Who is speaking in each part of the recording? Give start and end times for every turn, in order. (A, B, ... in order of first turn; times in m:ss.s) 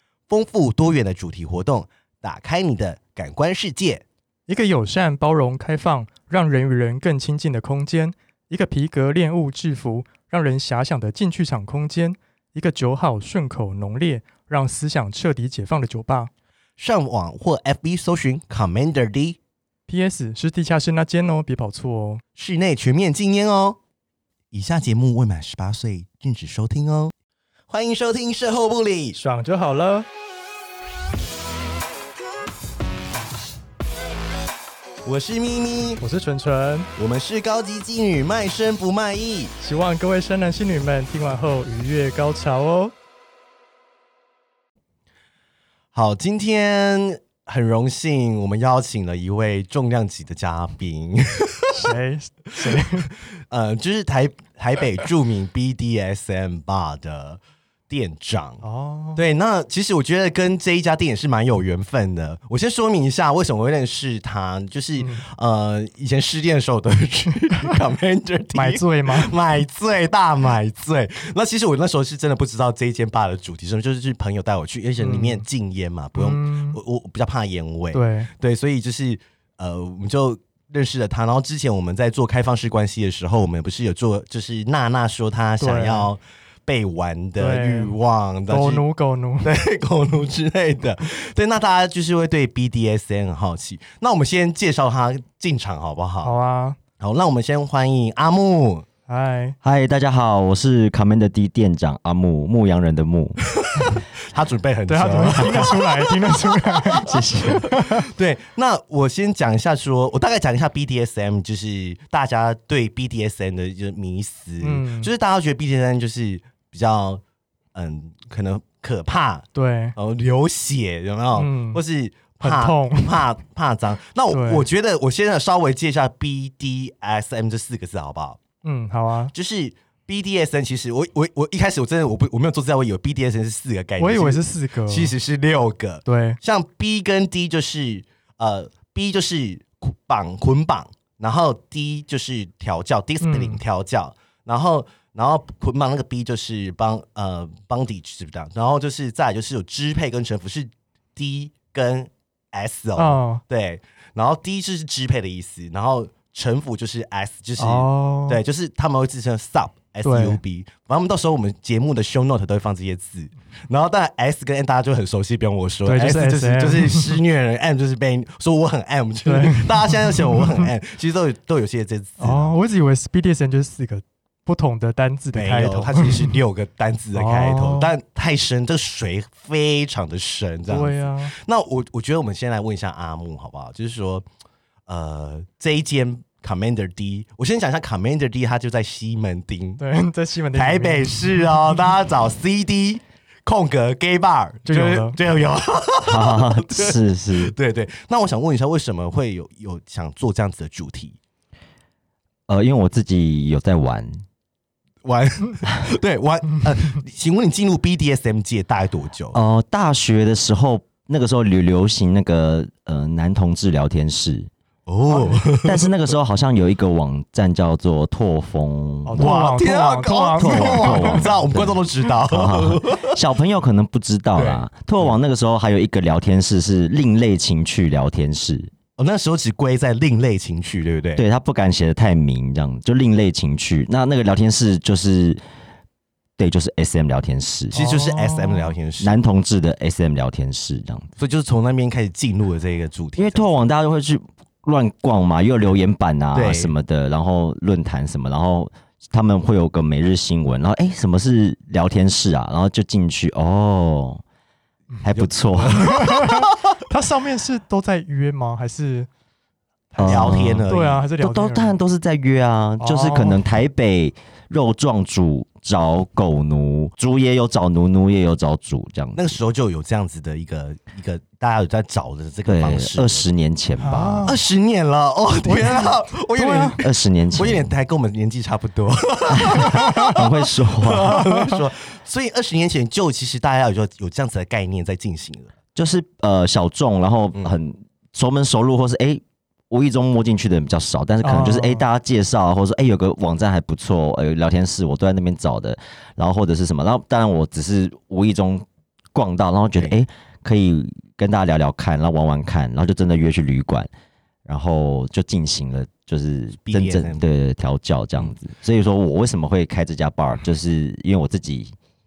0:00.3-0:04.0 A
0:04.5-0:16.3 B
0:16.8-0:19.4 A
0:19.9-0:22.2 B
0:22.4-0:23.8 A
0:24.5-0:27.1 A
0:27.7-0:29.2 A
0:29.2-0:30.1 B
0:35.0-0:36.0 A
0:36.0-0:36.9 B
0:37.0-0:39.5 A
0:39.6-0:42.9 B
0:45.9-0:51.9 A
0:51.7-0:53.1 B
0:53.5-0:58.6 A
0:58.6-0:59.2 B
0:59.2-1:28.8 A
1:05.0-1:05.3 B
1:08.6-1:09.4 B
1:15.0-1:15.4 B
1:16.2-1:16.8 B
1:17.9-1:18.3 B
1:25.6-1:26.1 B
1:27.4-1:28.0 B
1:28.5-1:29.6 B
1:29.4-1:36.3 A
1:36.2-1:36.8 B
1:37.0-1:38.9 A
1:39.1-1:39.6 B
1:39.6-1:43.4 C
1:43.6-1:46.0 A
1:44.9-1:48.1 B
1:45.4-1:45.7 C
1:46.9-1:47.7 C
1:47.6-1:57.2 A
1:54.6-1:55.1 B
1:57.7-2:08.4 A
1:59.6-2:00.0 B
2:01.4-2:01.8 B
2:02.4-2:03.2 B
2:04.3-2:04.7 B
2:08.6-2:09.3 B
2:09.3-2:52.5 A
2:14.0-2:15.1 B
2:16.1-2:16.4 B
2:23.2-2:23.6 B
2:33.0-2:33.4 B
2:37.6-2:38.4 B
2:40.0-2:40.4 B
2:45.9-2:47.2 B
2:49.2-2:50.7 B
2:52.2-2:56.4 B
2:55.3-3:04.3 A
2:57.2-2:58.0 B
3:00.7-3:01.3 B
3:04.9-3:09.8 A
3:09.8-3:11.6 B
3:10.6-3:21.2 A
3:14.7-3:15.2 B
3:16.1-3:17.5 C
3:22.5-3:24.2 C
3:25.0-3:29.4 A
3:29.3-3:34.5 C
3:34.9-3:35.9 A
3:35.5-3:39.3 C
3:39.1-3:41.3 B
3:39.2-3:43.2 A
3:40.4-3:48.7 C
3:44.4-3:45.2 A
3:49.0-3:51.2 A
3:51.2-3:55.4 C
3:56.4-3:57.8 C
3:57.7-3:58.8 B
3:57.7-3:59.2 A
3:59.0-4:01.1 C
4:01.2-4:03.5 A
4:03.2-4:14.2 C
4:06.3-4:06.7 A
4:15.0-4:16.0 C
4:15.1-4:16.7 A
4:16.0-4:19.1 B
4:19.9-4:21.8 B
4:20.0-4:29.4 C
4:20.0-4:21.1 A
4:22.8-4:23.4 B
4:29.2-4:33.3 A
4:32.5-4:34.3 C
4:33.8-4:34.4 B
4:34.2-4:36.8 A
4:35.5-4:36.8 B
4:36.8-4:37.7 C
4:37.4-4:45.5 A
4:39.3-4:41.2 C
4:45.8-5:03.9 C
4:51.2-4:51.8 B
5:04.5-5:11.7 C
5:06.6-5:07.2 A